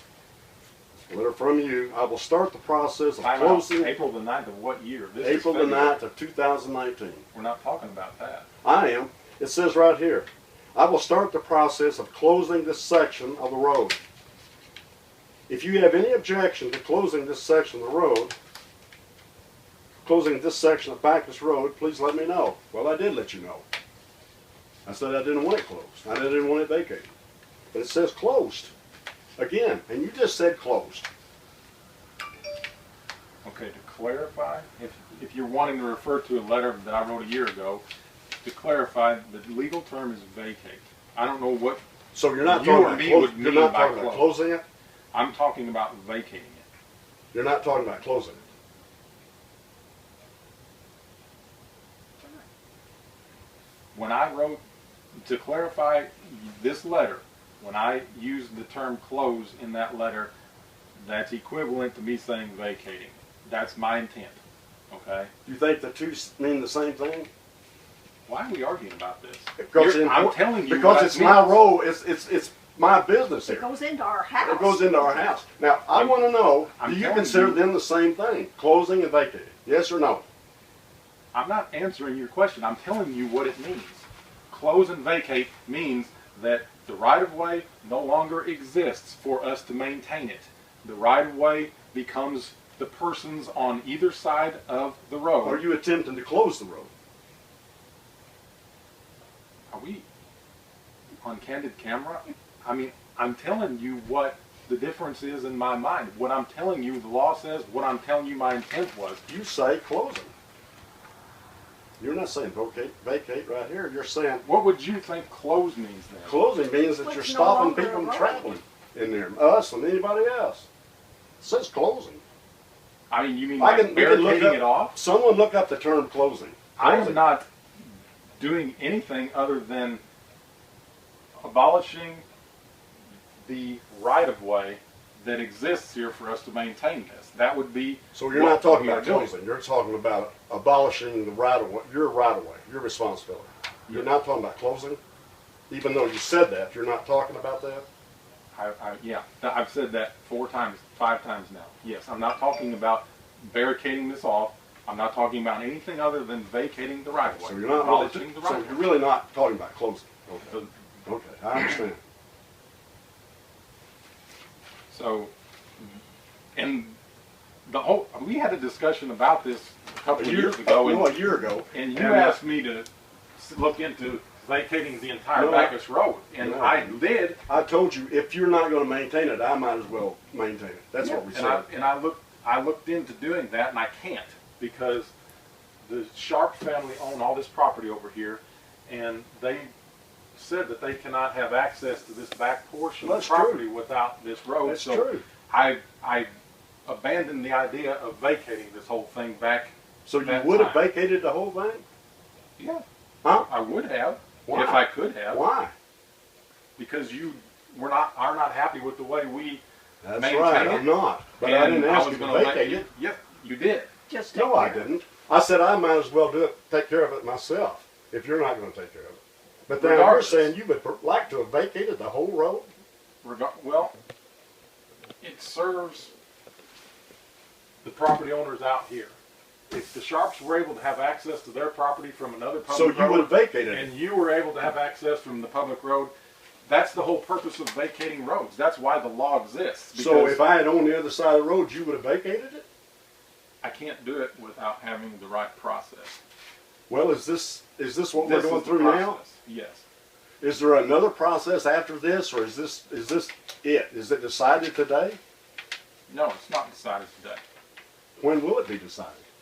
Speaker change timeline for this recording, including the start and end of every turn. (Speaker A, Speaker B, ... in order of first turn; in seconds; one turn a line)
Speaker A: 1.1-4.0
Speaker B: 3.2-6.0
Speaker A: 5.2-7.2
Speaker B: 7.3-8.5
Speaker A: 8.6-14.0
Speaker A: 15.5-18.4
Speaker A: 20.1-23.6
Speaker A: 24.9-27.1
Speaker A: 27.7-28.7
Speaker A: 29.4-31.1
Speaker B: 33.4-37.8
Speaker B: 38.4-41.8
Speaker A: 42.1-44.6
Speaker B: 42.4-44.3
Speaker B: 45.1-46.6
Speaker A: 47.3-48.4
Speaker B: 53.9-54.6
Speaker B: 55.2-60.3
Speaker B: 61.0-64.4
Speaker B: 64.9-65.3
Speaker A: 65.5-67.3
Speaker B: 68.3-71.7
Speaker A: 69.6-73.7
Speaker C: 73.5-75.4
Speaker A: 74.4-80.2
Speaker B: 75.9-77.7
Speaker B: 81.3-95.7
Speaker A: 95.4-96.9
Speaker B: 99.7-100.0
Speaker B: 101.2-109.2
Speaker A: 109.3-110.3
Speaker A: 112.0-114.4
Speaker B: 114.4-116.4
Speaker A: 116.2-120.7
Speaker C: 116.9-118.5
Speaker A: 121.4-122.2
Speaker B: 123.1-125.0
Speaker A: 123.6-127.3
Speaker B: 126.8-127.5
Speaker B: 128.4-130.0
Speaker B: 131.4-132.2
Speaker B: 133.4-139.3
Speaker A: 138.1-145.0
Speaker B: 143.9-144.2
Speaker A: 145.7-147.9
Speaker B: 148.5-158.9
Speaker A: 157.4-162.0
Speaker B: 164.9-165.3
Speaker B: 166.6-167.0
Speaker B: 167.7-177.4
Speaker A: 170.2-172.4
Speaker A: 175.3-175.8
Speaker A: 176.4-181.7
Speaker B: 181.3-185.1
Speaker B: 185.9-189.7
Speaker B: 190.4-196.3
Speaker A: 193.0-193.7
Speaker A: 194.7-195.2
Speaker B: 196.9-200.9
Speaker A: 200.1-201.8
Speaker B: 202.6-202.8
Speaker A: 203.2-203.5
Speaker B: 203.5-205.5
Speaker A: 204.5-205.7
Speaker B: 206.8-209.6
Speaker A: 210.0-212.9
Speaker B: 210.2-213.9
Speaker C: 214.1-214.9
Speaker A: 214.3-222.7
Speaker B: 219.7-220.5
Speaker B: 223.2-223.9
Speaker B: 225.2-226.1
Speaker B: 227.8-229.1
Speaker B: 229.7-236.1
Speaker A: 232.7-233.9
Speaker B: 236.7-240.4
Speaker A: 239.9-242.7
Speaker B: 243.6-246.2
Speaker A: 246.9-249.2
Speaker B: 248.2-249.8
Speaker A: 250.4-255.2
Speaker B: 256.1-257.4
Speaker A: 258.2-259.2